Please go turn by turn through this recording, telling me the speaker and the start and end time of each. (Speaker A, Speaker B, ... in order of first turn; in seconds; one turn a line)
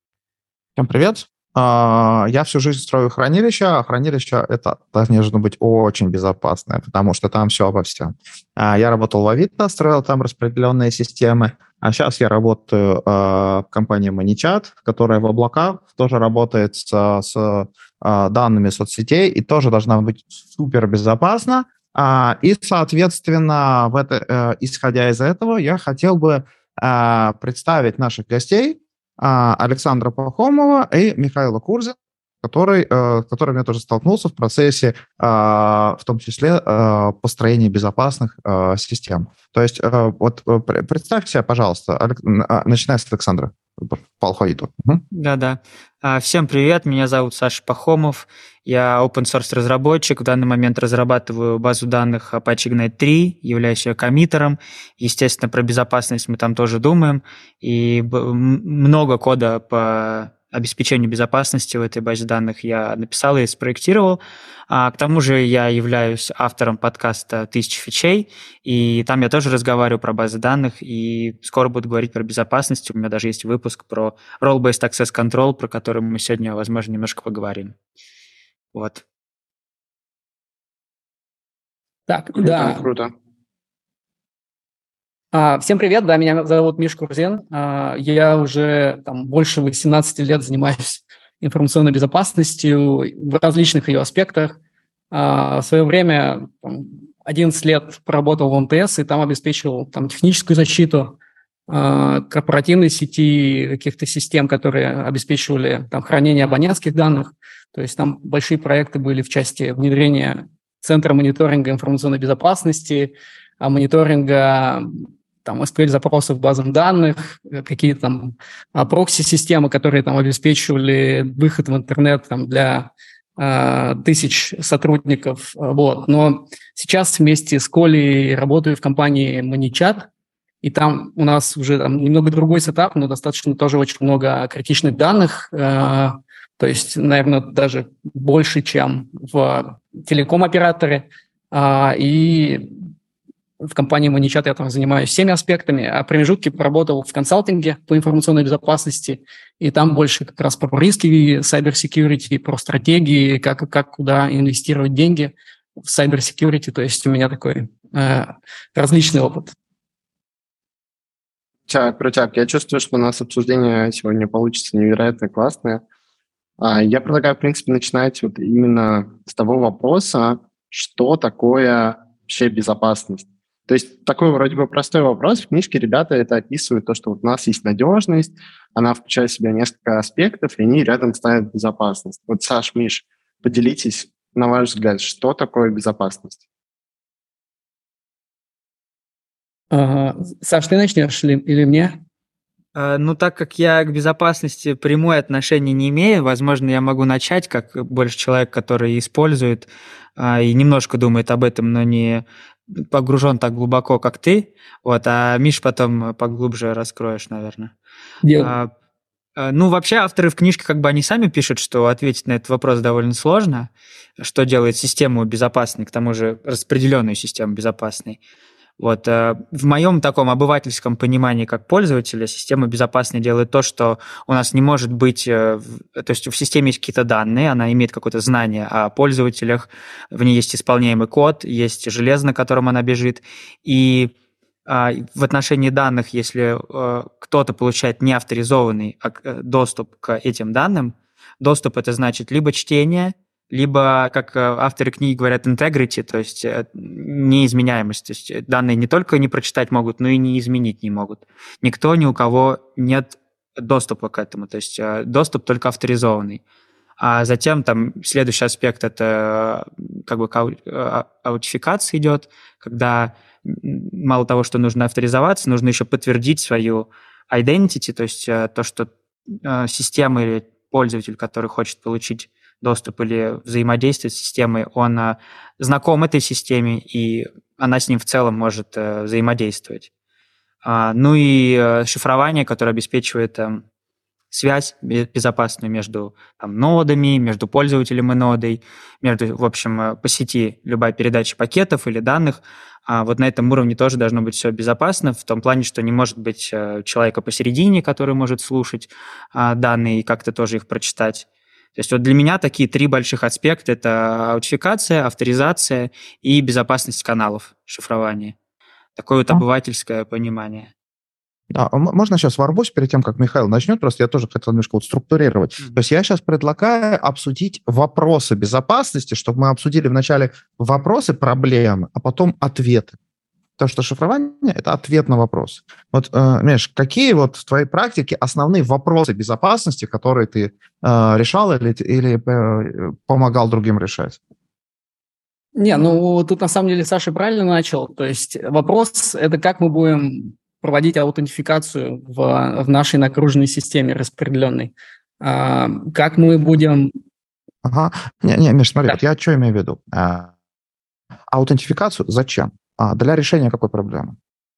Speaker A: 0.8-45.0
Speaker B: 45.1-77.7
Speaker B: 78.7-79.0
Speaker C: 82.1-82.8
Speaker D: 82.4-83.1
Speaker C: 85.3-94.6
Speaker C: 95.1-101.2
Speaker C: 101.7-130.1
Speaker C: 130.6-142.8
Speaker C: 143.6-159.5
Speaker D: 161.7-165.8
Speaker D: 166.6-186.4
Speaker C: 189.7-192.0
Speaker B: 192.7-202.2
Speaker B: 202.8-207.7
Speaker C: 208.2-208.5
Speaker B: 208.4-208.7
Speaker B: 209.3-218.2
Speaker B: 218.8-234.1
Speaker B: 234.7-256.4
Speaker B: 257.0-279.9
Speaker B: 280.6-283.6
Speaker B: 284.3-308.3
Speaker B: 309.0-310.7
Speaker A: 311.5-322.9
Speaker A: 323.6-334.2
Speaker C: 335.6-346.9
Speaker A: 347.6-350.3
Speaker A: 351.3-354.1